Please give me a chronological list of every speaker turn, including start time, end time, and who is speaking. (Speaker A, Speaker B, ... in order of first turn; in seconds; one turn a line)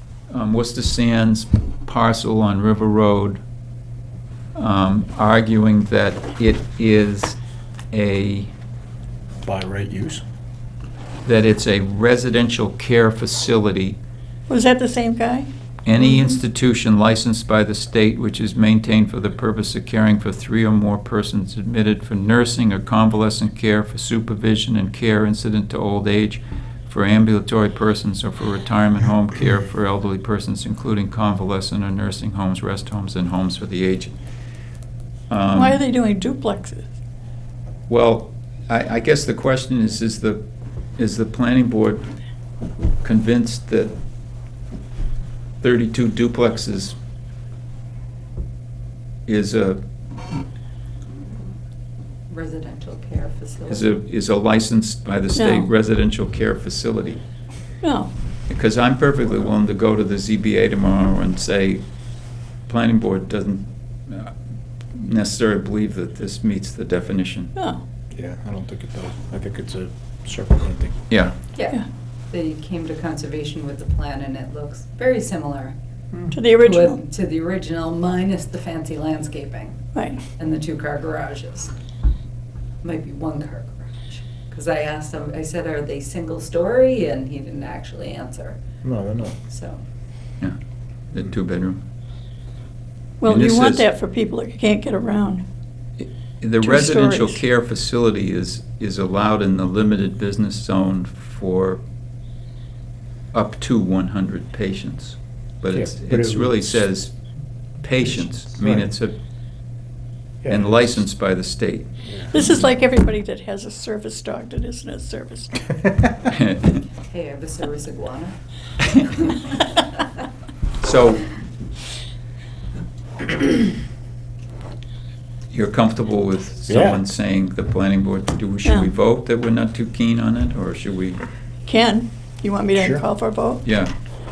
Speaker A: 0.3-3.4
Speaker A: 4.6-7.4
Speaker A: 7.9-8.5
Speaker B: 9.4-10.2
Speaker A: 11.2-14.0
Speaker C: 14.5-15.5
Speaker A: 15.8-34.2
Speaker A: 35.3-35.8
Speaker C: 35.5-36.9
Speaker A: 37.9-40.5
Speaker A: 41.0-42.1
Speaker A: 43.0-44.0
Speaker A: 45.6-47.0
Speaker A: 49.3-49.8
Speaker D: 52.3-54.0
Speaker A: 53.7-57.2
Speaker C: 55.4-55.7
Speaker C: 57.8-58.1
Speaker A: 58.5-61.8
Speaker A: 62.6-64.3
Speaker A: 64.9-67.5
Speaker C: 67.6-67.8
Speaker B: 68.1-71.0
Speaker A: 71.1-71.3
Speaker D: 71.5-75.8
Speaker C: 76.3-77.0
Speaker D: 76.6-79.8
Speaker C: 79.9-80.2
Speaker D: 80.4-81.7
Speaker D: 82.8-88.6
Speaker B: 88.8-89.4
Speaker D: 89.5-89.8
Speaker A: 91.1-91.8
Speaker C: 93.2-95.5
Speaker A: 93.3-93.9
Speaker A: 96.0-101.8
Speaker C: 96.6-97.4
Speaker A: 103.3-107.2
Speaker B: 105.7-106.9
Speaker A: 107.8-109.2
Speaker B: 110.4-111.0
Speaker A: 110.5-111.9
Speaker C: 112.3-115.7
Speaker A: 116.3-116.8
Speaker D: 116.8-118.4
Speaker D: 118.9-119.9
Speaker A: 120.8-121.3
Speaker A: 125.5-131.2
Speaker B: 126.7-127.0
Speaker C: 128.7-128.9
Speaker C: 131.7-133.6
Speaker A: 133.6-133.9